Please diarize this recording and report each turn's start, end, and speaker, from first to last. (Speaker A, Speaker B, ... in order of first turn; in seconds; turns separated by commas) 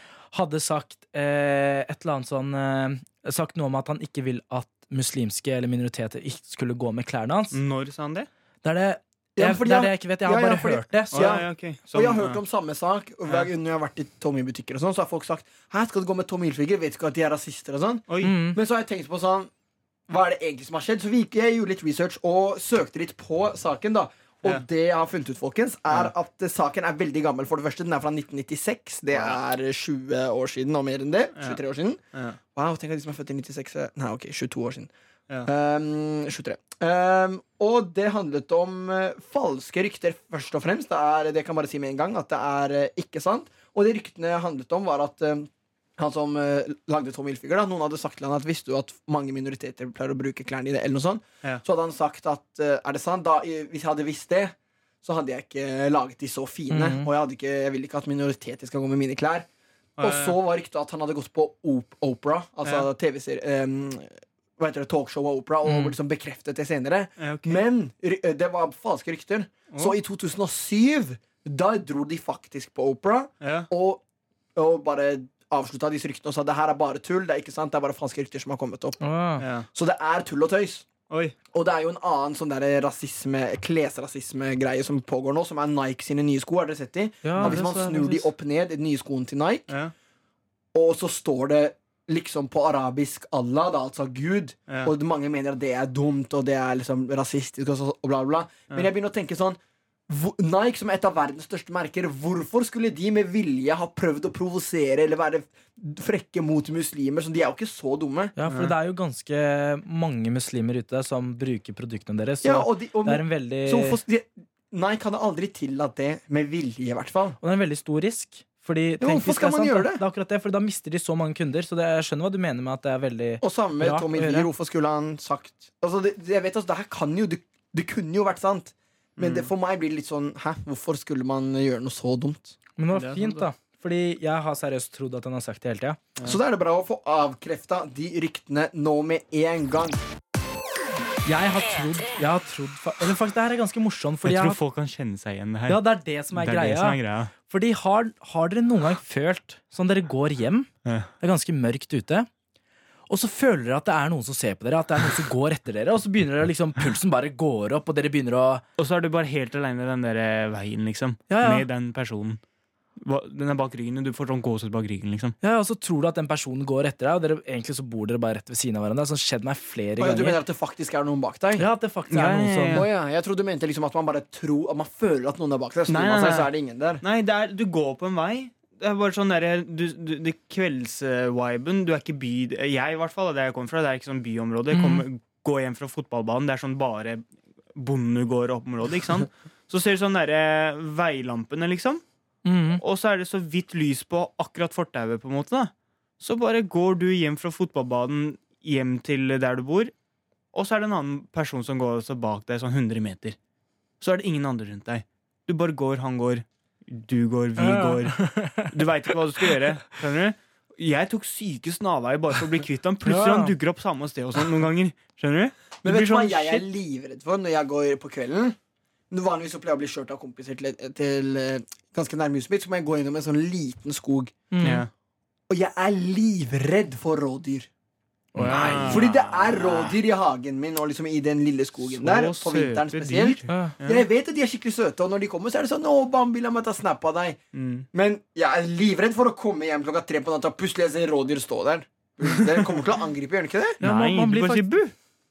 Speaker A: 0.3-7.6, Speaker B: 7.5-8.3, Speaker A: 8.6-11.4, Speaker C: 9.4-19.5, Speaker B: 11.1-12.4, Speaker B: 18.1-18.4, Speaker A: 18.2-18.6, Speaker C: 20.1-32.0, Speaker B: 29.1-29.4, Speaker B: 31.4-31.6, Speaker B: 32.1-32.4, Speaker C: 32.5-34.9, Speaker C: 35.5-59.5, Speaker A: 56.7-57.1, Speaker B: 60.0-60.4, Speaker C: 60.0-74.0, Speaker B: 62.6-62.9, Speaker A: 65.7-66.0, Speaker B: 67.2-67.6, Speaker B: 69.7-70.0, Speaker B: 73.4-73.7, Speaker C: 74.5-79.0, Speaker A: 79.0-79.5, Speaker B: 79.4-79.7, Speaker C: 79.7-80.9, Speaker B: 81.1-81.3, Speaker C: 81.5-89.7, Speaker A: 87.2-88.3, Speaker C: 90.7-108.3, Speaker B: 94.7-94.9, Speaker A: 108.4-114.0, Speaker B: 108.5-108.7, Speaker C: 112.4-117.4, Speaker A: 117.4-124.5, Speaker C: 119.0-120.0, Speaker C: 123.4-132.6, Speaker B: 129.2-129.5, Speaker A: 132.8-136.0, Speaker B: 132.9-133.4, Speaker C: 136.2-140.0, Speaker A: 141.2-144.6, Speaker B: 144.2-147.3, Speaker A: 145.7-152.3, Speaker A: 153.1-158.6, Speaker B: 158.8-162.4, Speaker A: 161.3-161.7, Speaker B: 163.0-165.4, Speaker A: 165.4-170.4, Speaker C: 170.0-171.7, Speaker A: 171.6-172.8, Speaker B: 172.1-172.9, Speaker C: 172.7-177.0, Speaker B: 175.9-187.2, Speaker A: 184.7-185.1, Speaker B: 187.8-192.0, Speaker A: 192.4-192.8, Speaker B: 192.8-199.9, Speaker B: 200.5-203.4, Speaker B: 204.0-216.7, Speaker A: 207.6-208.8, Speaker A: 213.1-213.5, Speaker C: 215.8-218.6, Speaker C: 219.1-224.3, Speaker A: 224.5-224.8, Speaker B: 224.6-224.9, Speaker C: 225.5-227.7, Speaker A: 228.3-229.0, Speaker B: 228.4-230.0, Speaker C: 228.5-237.4, Speaker B: 231.9-234.1, Speaker A: 233.5-233.8, Speaker B: 237.5-237.9, Speaker C: 237.9-243.8, Speaker B: 242.3-242.7, Speaker A: 243.8-244.9, Speaker B: 243.8-244.9